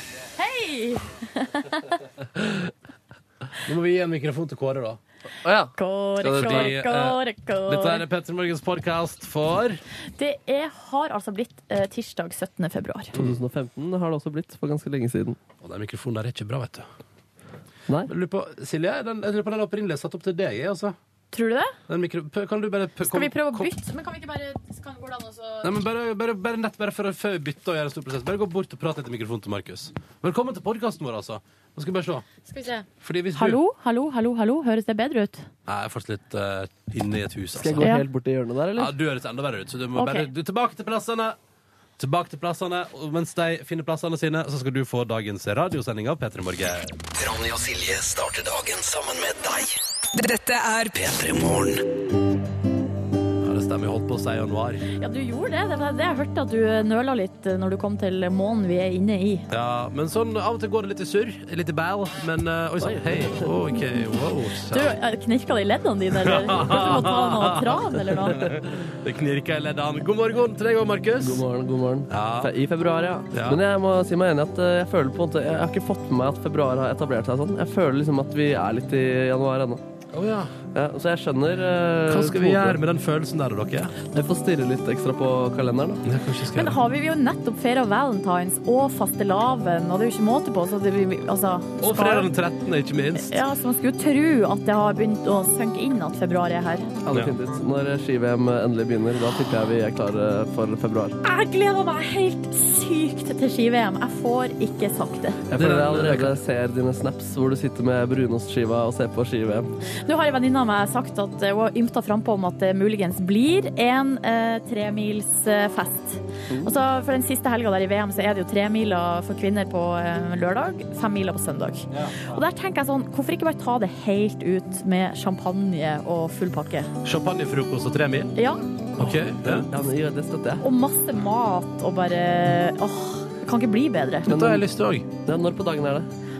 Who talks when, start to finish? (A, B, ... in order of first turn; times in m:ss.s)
0:00.4-0:02.0 A
0:03.6-0:05.0 B
0:05.4-0:06.8 C
0:05.8-0:08.0 A
0:06.3-0:09.8 B
0:10.2-0:13.1 A
0:13.2-0:15.4 C
0:15.6-0:16.9 B
0:18.1-0:21.0 B
0:21.3-0:21.8 A
0:21.9-0:23.7 B
0:23.0-0:25.7 A
0:25.6-0:32.2 B
0:32.5-0:35.5 A
0:33.0-0:33.6 B
0:35.7-0:37.9 B
0:37.6-0:38.9 C
0:37.8-0:38.1 A
0:38.8-0:41.4 B
0:40.0-0:40.3 A
0:42.0-0:46.9 B
0:47.2-0:51.8 D
0:53.4-0:54.8 B
0:55.0-0:59.5 A
0:59.5-1:05.0 B
1:02.9-1:03.5 C
1:04.7-1:08.5 A
1:06.2-1:11.4 B
1:11.2-1:19.8 C
1:12.1-1:12.5 B
1:13.3-1:13.6 B
1:20.1-1:20.5 B
1:20.8-1:22.8 C
1:22.1-1:24.0 B
1:24.0-1:26.0 C
1:26.0-1:26.8 B
1:26.5-1:32.3 A
1:31.8-1:33.3 B
1:33.2-1:36.9 A
1:37.0-1:41.2 C
1:41.2-1:45.4 A
1:45.5-1:49.7 C
1:45.6-1:46.4 B
1:50.0-2:06.9 A
2:01.9-2:02.4 B
2:07.0-2:08.3 B
2:08.4-2:08.6 A
2:09.0-2:09.7 B
2:09.0-2:10.6 C
2:10.6-2:14.3 A
2:14.3-2:14.7 C
2:14.3-2:15.1 B
2:15.2-2:16.1 C